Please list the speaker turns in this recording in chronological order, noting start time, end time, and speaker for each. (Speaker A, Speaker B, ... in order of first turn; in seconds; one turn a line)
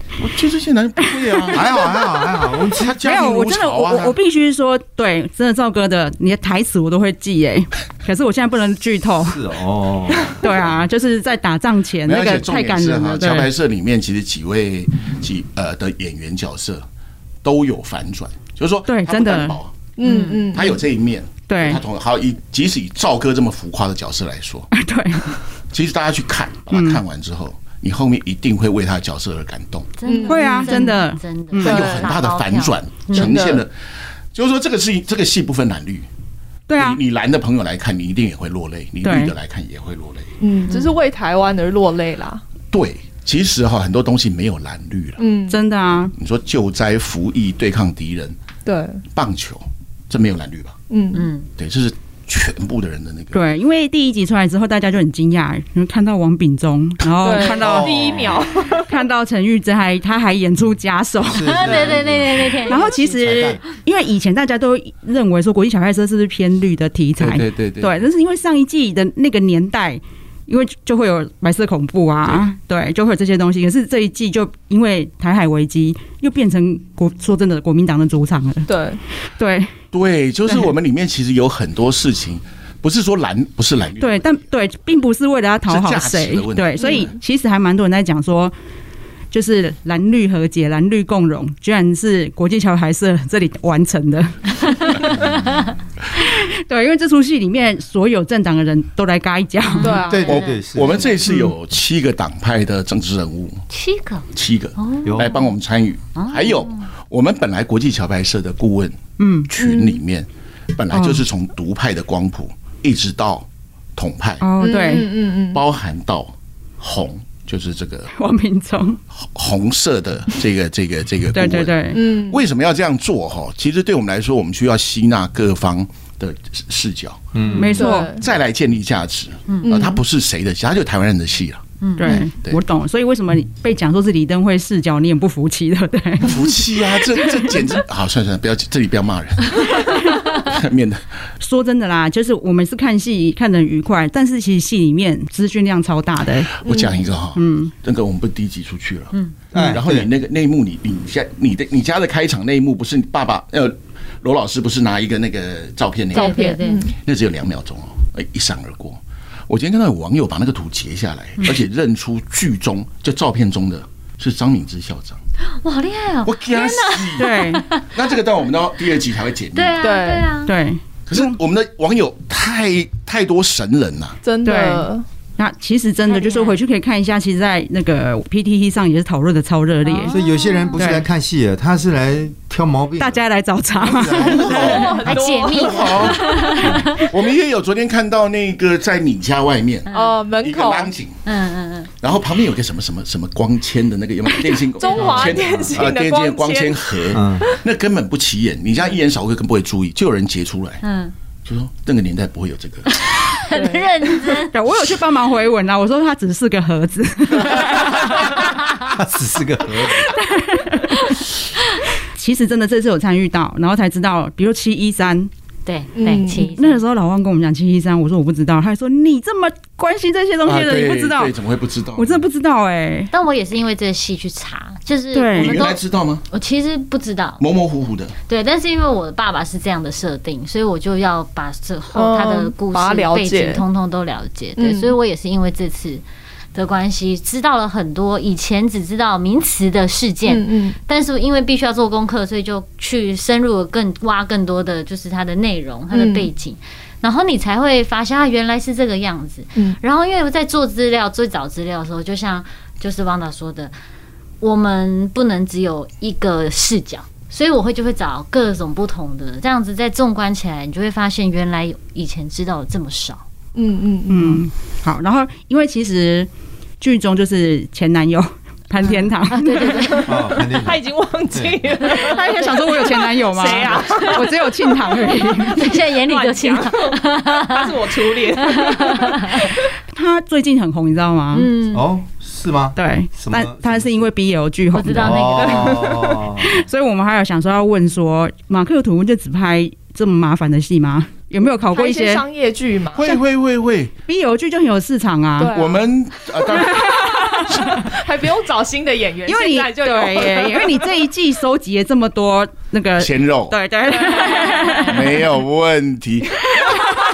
Speaker A: 0.2-1.8
Speaker B: 1.2-1.8
Speaker C: 1.5-3.0
Speaker A: 2.7-4.2
Speaker B: 3.0-9.4
Speaker C: 9.3-10.4
Speaker B: 10.4-13.5
Speaker A: 12.1-16.8
Speaker A: 17.4-19.9
Speaker B: 18.9-19.6
Speaker D: 20.0-20.8
Speaker E: 20.0-20.5
Speaker A: 20.5-24.7
Speaker B: 21.5-21.8
Speaker B: 24.7-25.4
Speaker A: 25.7-29.9
Speaker B: 26.7-27.0
Speaker E: 30.0-33.4
Speaker D: 30.0-30.9
Speaker B: 30.2-31.8
Speaker A: 31.6-33.7
Speaker D: 31.6-32.1
Speaker D: 33.1-33.6
Speaker A: 34.3-36.1
Speaker B: 36.7-37.0
Speaker A: 36.7-40.3
Speaker B: 39.0-39.3
Speaker D: 40.4-42.4
Speaker A: 42.7-45.2
Speaker D: 45.2-45.6
Speaker B: 45.5-46.1
Speaker A: 46.1-48.4
Speaker D: 48.6-49.0
Speaker A: 49.1-50.8
Speaker D: 50.9-51.3
Speaker E: 51.1-51.5
Speaker A: 51.6-53.4
Speaker B: 53.3-58.2
Speaker D: 57.2-58.9
Speaker C: 57.6-58.4
Speaker B: 58.8-62.0
Speaker C: 61.2-63.6
Speaker E: 61.4-63.4
Speaker B: 62.6-78.7
Speaker A: 67.2-67.9
Speaker D: 78.7-79.0
Speaker B: 79.3-79.8
Speaker A: 79.9-84.4
Speaker B: 80.5-80.7
Speaker B: 84.0-88.5
Speaker A: 85.7-87.1
Speaker D: 86.8-87.1
Speaker B: 89.3-95.2
Speaker E: 95.2-95.6
Speaker B: 96.2-100.0
Speaker E: 99.7-101.2
Speaker D: 99.8-100.4
Speaker C: 100.1-101.1
Speaker A: 100.2-103.6
Speaker E: 103.7-104.2
Speaker A: 104.3-109.0
Speaker E: 104.8-105.5
Speaker C: 105.0-105.3
Speaker E: 106.2-106.8
Speaker B: 109.2-109.5
Speaker A: 109.5-114.5
Speaker D: 109.6-110.0
Speaker B: 110.9-111.2
Speaker B: 114.4-115.1
Speaker D: 114.6-115.6
Speaker A: 115.5-118.1
Speaker B: 118.1-119.0
Speaker A: 119.1-127.2
Speaker B: 121.3-122.0
Speaker D: 121.9-122.4
Speaker C: 127.3-127.8
Speaker B: 127.5-128.2
Speaker D: 127.7-128.2
Speaker A: 128.2-132.6
Speaker E: 129.5-129.9
Speaker D: 129.7-129.9
Speaker E: 131.8-132.2
Speaker B: 132.0-136.6
Speaker A: 136.2-141.0
Speaker B: 137.2-137.5
Speaker B: 141.4-146.5
Speaker A: 146.6-156.4
Speaker D: 146.7-146.9
Speaker B: 147.3-147.7
Speaker C: 149.5-150.1
Speaker D: 156.1-156.9
Speaker E: 156.1-156.8
Speaker A: 157.0-165.2
Speaker E: 165.5-167.9
Speaker A: 166.2-169.8
Speaker B: 167.2-167.6
Speaker E: 169.5-170.5
Speaker D: 169.8-170.3
Speaker B: 170.4-171.4
Speaker A: 171.1-174.2
Speaker D: 174.2-175.0
Speaker B: 174.4-180.1
Speaker E: 176.1-176.6
Speaker E: 179.8-180.8
Speaker C: 180.0-183.2
Speaker B: 180.7-181.1
Speaker B: 183.0-185.0
Speaker C: 183.8-185.0
Speaker D: 184.0-186.4
Speaker E: 185.0-187.0
Speaker A: 185.5-191.2
Speaker E: 189.9-190.2
Speaker D: 189.9-190.9
Speaker E: 191.2-191.9
Speaker A: 192.0-200.8
Speaker D: 194.6-196.8
Speaker C: 194.9-195.7
Speaker C: 197.1-197.5
Speaker E: 200.8-201.1
Speaker A: 201.4-203.0
Speaker E: 202.9-204.5
Speaker D: 203.5-204.4
Speaker B: 204.5-208.3
Speaker C: 208.8-210.1
Speaker B: 210.1-211.0
Speaker B: 212.1-215.3
Speaker E: 215.6-216.8
Speaker D: 215.9-216.5
Speaker B: 216.5-221.3
Speaker A: 220.4-222.2
Speaker B: 221.9-223.1
Speaker E: 223.1-227.4
Speaker B: 225.1-225.7
Speaker A: 225.3-226.2
Speaker A: 227.4-228.2
Speaker E: 228.3-236.0
Speaker D: 231.9-233.6
Speaker D: 234.6-234.9
Speaker E: 236.5-253.7
Speaker D: 240.2-240.8
Speaker D: 245.9-246.3
Speaker E: 254.4-263.2
Speaker D: 263.5-264.4
Speaker B: 264.1-266.3
Speaker B: 266.8-269.9
Speaker E: 269.3-270.2
Speaker D: 269.6-275.1
Speaker C: 270.0-270.8
Speaker C: 271.3-271.6
Speaker B: 271.8-275.6
Speaker E: 275.5-277.8
Speaker D: 275.9-279.6
Speaker E: 278.4-279.5
Speaker B: 279.9-281.5
Speaker E: 281.3-281.9
Speaker C: 281.7-284.1
Speaker B: 282.8-285.5
Speaker E: 284.7-286.0
Speaker C: 284.9-286.5
Speaker D: 285.4-286.2
Speaker B: 286.4-292.2
Speaker D: 291.7-293.1
Speaker A: 292.9-293.9
Speaker B: 294.1-295.6
Speaker D: 295.4-295.8
Speaker A: 295.5-297.7
Speaker B: 296.5-297.9
Speaker D: 297.6-300.9
Speaker B: 299.2-305.2
Speaker A: 303.0-303.6
Speaker D: 304.0-304.8
Speaker E: 304.2-304.9
Speaker A: 304.8-306.6
Speaker B: 306.5-306.8